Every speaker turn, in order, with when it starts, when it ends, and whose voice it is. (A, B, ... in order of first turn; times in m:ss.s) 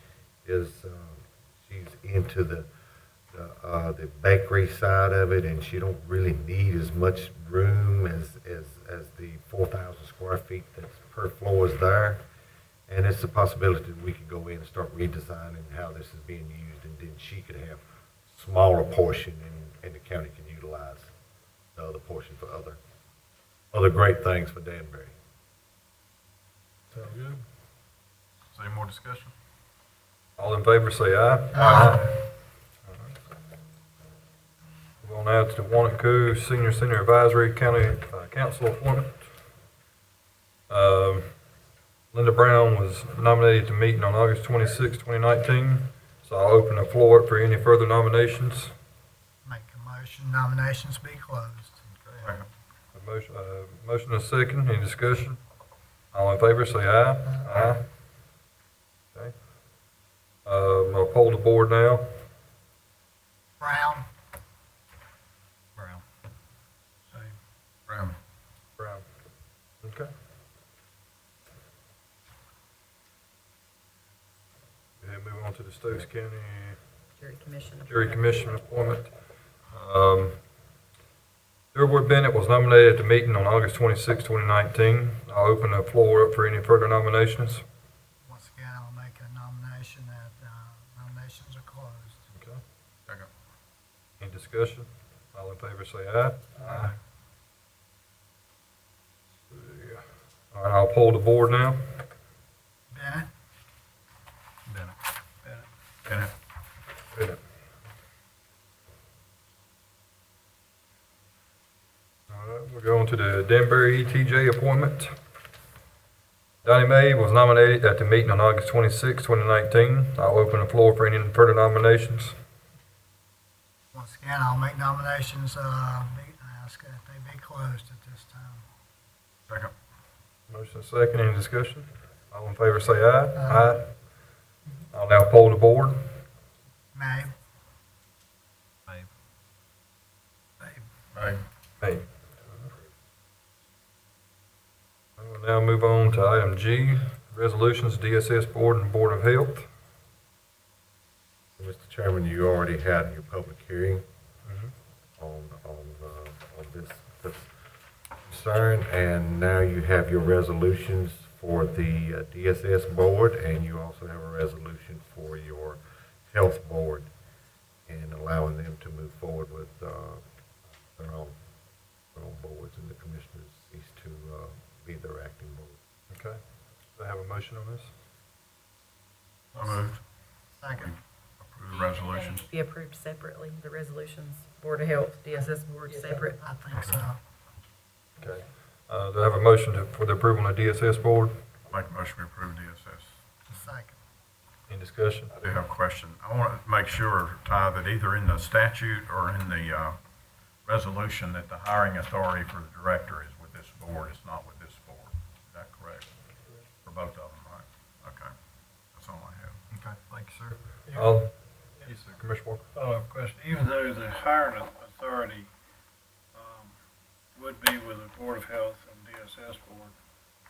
0:00.4-0:02.7 A
0:03.3-0:12.2 A
0:12.9-0:21.1 A
0:21.7-0:22.8 A
0:23.7-0:25.1 A
0:28.5-0:29.3 B
0:30.4-0:32.2 C
0:31.6-0:31.9 D
0:32.9-0:33.1 C
0:35.0-0:39.1 C
0:40.7-0:41.3 C
0:42.1-0:48.7 C
0:49.4-0:51.8 D
0:52.9-0:55.4 C
0:56.1-0:57.8 C
1:00.4-1:02.0 C
1:03.6-1:04.1 D
1:07.9-1:08.2 B
1:08.8-1:09.0 C
1:09.8-1:10.1 C
1:15.0-1:16.8 C
1:17.2-1:17.9 E
1:17.9-1:19.1 C
1:19.7-1:20.4 C
1:21.7-1:27.6 C
1:28.2-1:32.2 D
1:32.3-1:32.6 C
1:34.2-1:36.9 C
1:39.5-1:41.8 C
1:42.9-1:43.3 D
1:46.0-1:46.3 B
1:47.1-1:47.4 C
1:52.3-1:55.1 C
1:56.6-2:02.4 C
2:03.9-2:08.6 D
2:09.5-2:09.7 B
2:10.5-2:13.9 C
2:14.9-2:16.0 C
2:16.9-2:17.3 D
2:21.1-2:21.4 B
2:21.8-2:22.0 C
2:25.2-2:29.6 C
2:31.6-2:34.0 A
2:34.4-2:34.7 C
2:35.2-2:37.5 A
2:38.2-2:47.1 A
2:47.9-2:50.2 A
2:50.9-2:51.3 A
2:52.1-2:55.8 A
2:56.1-2:56.4 C
2:56.9-2:57.9 C
2:59.5-3:00.0 B
3:00.6-3:00.9 D
3:00.8-3:02.5 B
3:01.7-3:06.4 E
3:06.4-3:07.2 D
3:08.2-3:11.4 C
3:11.7-3:13.2 B
3:13.5-3:14.0 D
3:14.7-3:15.3 C
3:15.4-3:20.0 B
3:20.6-3:26.1 B
3:26.8-3:28.3 B
3:28.9-3:29.6 B
3:29.7-3:32.6 C
3:30.9-3:31.2 F
3:32.7-3:35.5 F
3:36.3-3:36.8 F
3:37.3-3:39.9 F